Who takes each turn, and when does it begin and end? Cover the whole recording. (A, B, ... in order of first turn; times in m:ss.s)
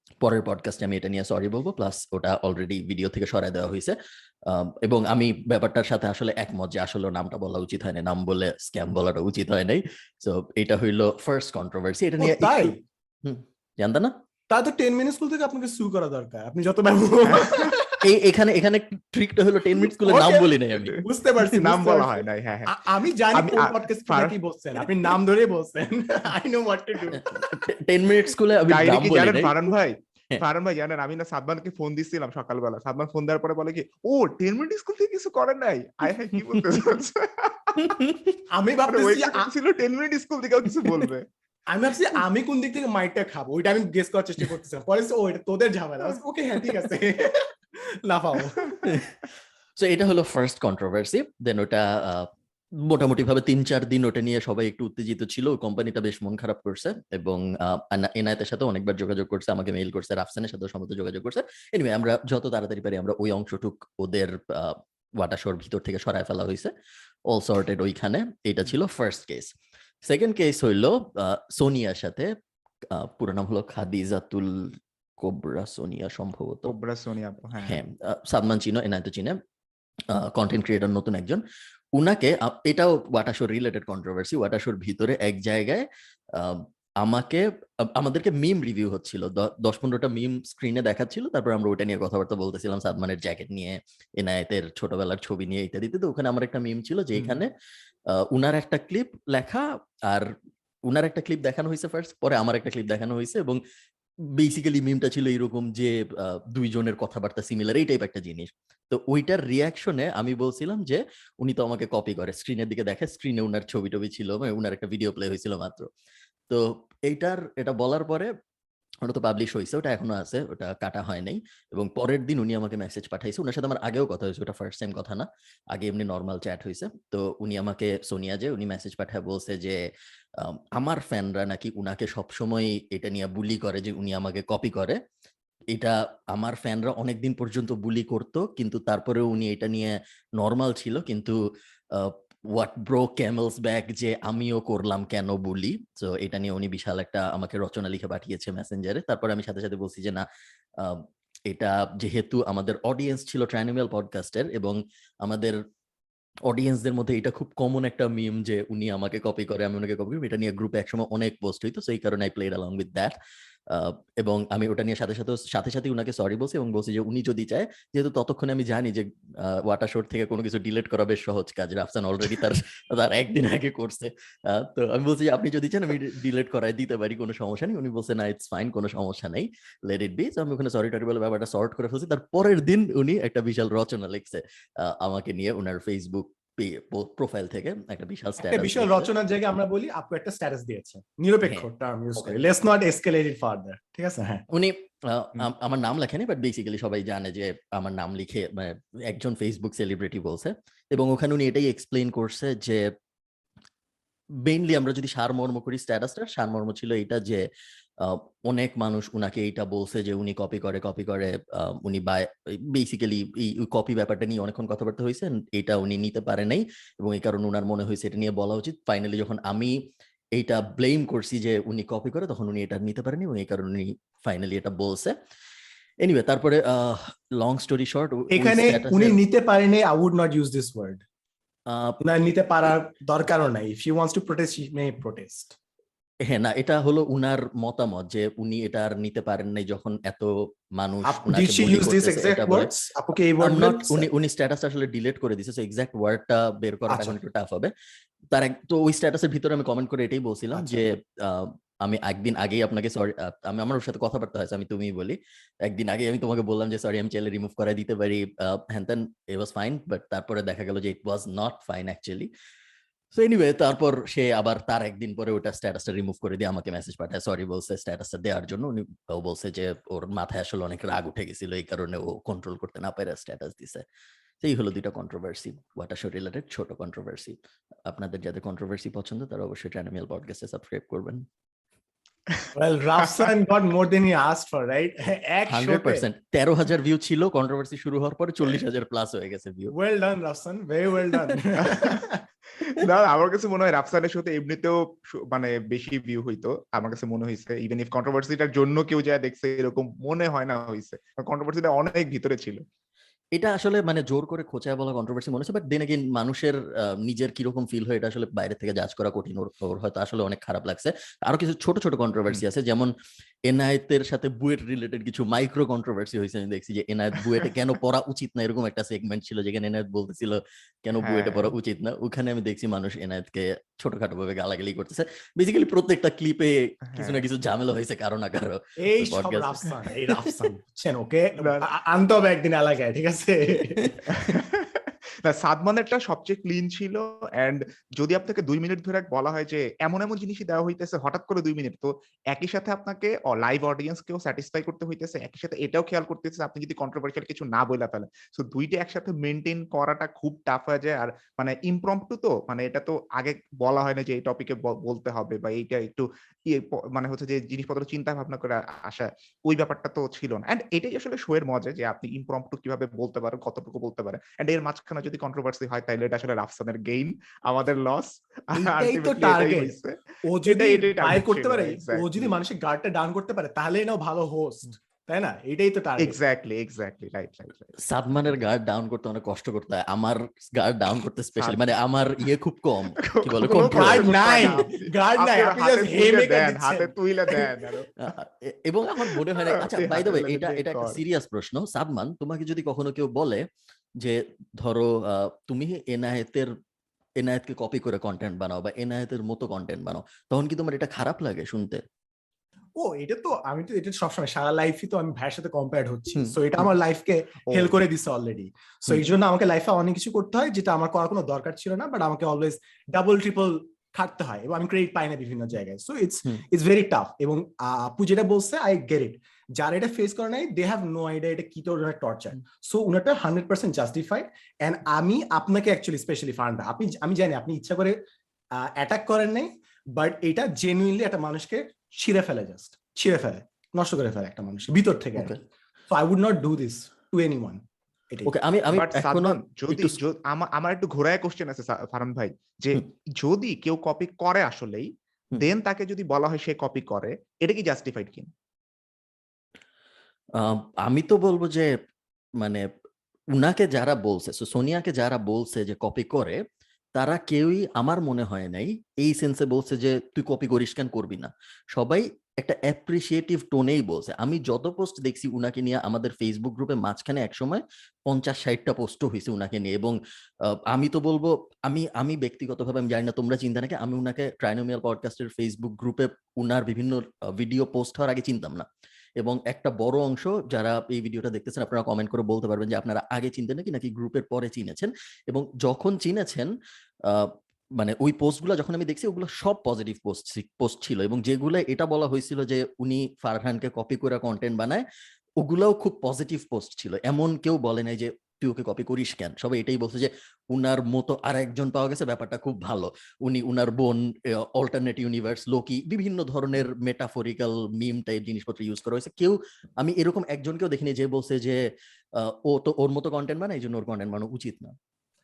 0:00.2-0:14.2 A
0:12.2-0:12.8 B
0:14.5-0:18.1 B
0:17.3-0:17.8 C
0:18.0-0:21.0 A
0:20.0-0:27.3 B
0:21.0-0:22.8 C
0:23.3-0:24.4 C
0:27.1-0:29.6 A
0:28.7-0:38.0 C
0:37.8-0:38.3 A
0:38.5-0:39.5 B
0:38.9-0:41.3 C
0:41.7-0:48.8 B
0:48.8-0:49.2 A
0:49.8-1:06.7 A
1:07.3-1:09.5 A
1:10.0-1:12.3 A
1:12.9-1:16.7 A
1:16.7-1:17.8 C
1:17.6-1:19.4 A
1:20.1-1:21.4 A
1:22.0-1:37.5 A
1:38.1-1:40.3 A
1:40.9-1:43.6 A
1:44.3-1:55.9 A
1:56.5-1:58.3 A
1:59.0-2:15.0 A
2:15.7-2:21.4 A
2:21.9-2:30.2 A
2:30.8-2:35.6 A
2:36.5-2:43.2 A
2:43.7-3:09.1 A
3:08.4-3:14.4 B
3:14.5-3:22.9 A
3:24.4-3:27.5 A
3:28.0-3:45.2 A
3:46.0-3:49.2 A
3:48.3-3:51.0 B
3:51.7-3:52.0 A
3:52.0-3:55.6 B
3:56.2-4:02.7 A
4:01.0-4:04.1 B
4:03.4-4:07.7 A
4:06.9-4:07.2 B
4:08.3-4:22.3 A
4:10.6-4:10.9 B
4:23.1-4:33.9 A
4:34.4-4:41.3 A
4:42.5-4:46.1 B
4:45.5-4:49.7 A
4:49.7-4:52.2 B
4:51.6-4:52.1 C
4:52.6-5:02.6 C
5:03.4-5:12.9 A
5:13.5-5:30.3 A
5:21.0-5:21.6 C
5:26.9-5:27.2 C
5:28.8-5:34.2 B
5:31.4-5:31.7 C
5:34.1-6:12.4 C
6:08.5-6:16.2 B
6:16.0-6:17.8 C
6:17.8-6:24.6 A
6:21.4-6:21.7 C
6:23.0-6:28.0 C
6:23.6-6:27.4 B
6:28.0-6:33.4 A
6:29.0-6:31.0 C
6:34.0-6:36.6 A
6:37.2-6:41.8 A
6:42.8-7:08.0 B
6:47.5-6:47.8 C
7:08.6-7:15.4 B
7:15.9-7:18.3 B
7:18.3-7:20.0 A
7:18.8-7:28.3 C
7:30.4-7:31.7 A
7:32.4-7:32.7 A
7:33.4-7:36.4 A
7:37.0-7:58.7 A
7:59.2-8:06.5 A
8:07.0-8:14.8 A
8:15.4-8:34.8 A